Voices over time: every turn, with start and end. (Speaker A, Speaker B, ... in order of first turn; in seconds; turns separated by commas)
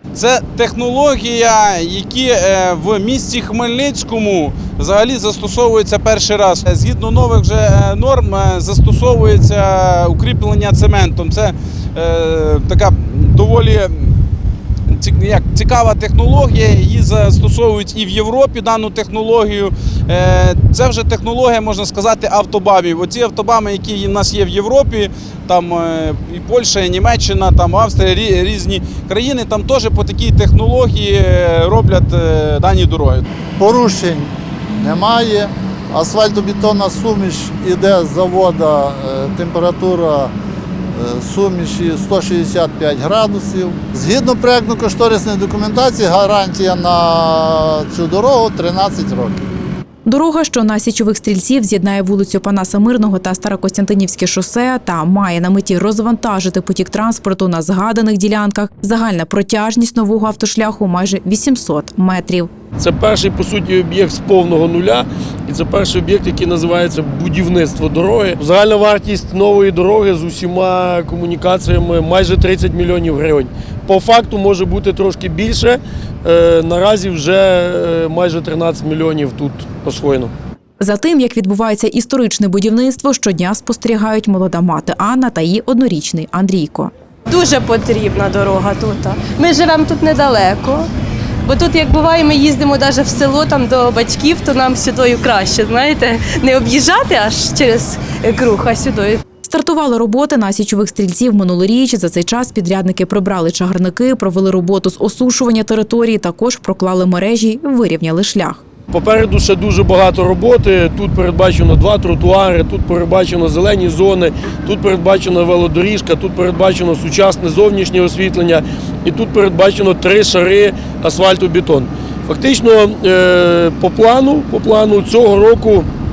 Speaker A: 0.1-14.1, Speaker A: 14.9-33.2, Speaker B: 33.6-40.3, Speaker B: 40.9-49.4, Speaker C: 50.0-62.5, Speaker D: 62.8-80.3, Speaker C: 80.8-86.9, Speaker E: 87.3-90.9, Speaker E: 91.4-99.2, Speaker C: 99.4-108.6, Speaker D: 108.9-125.9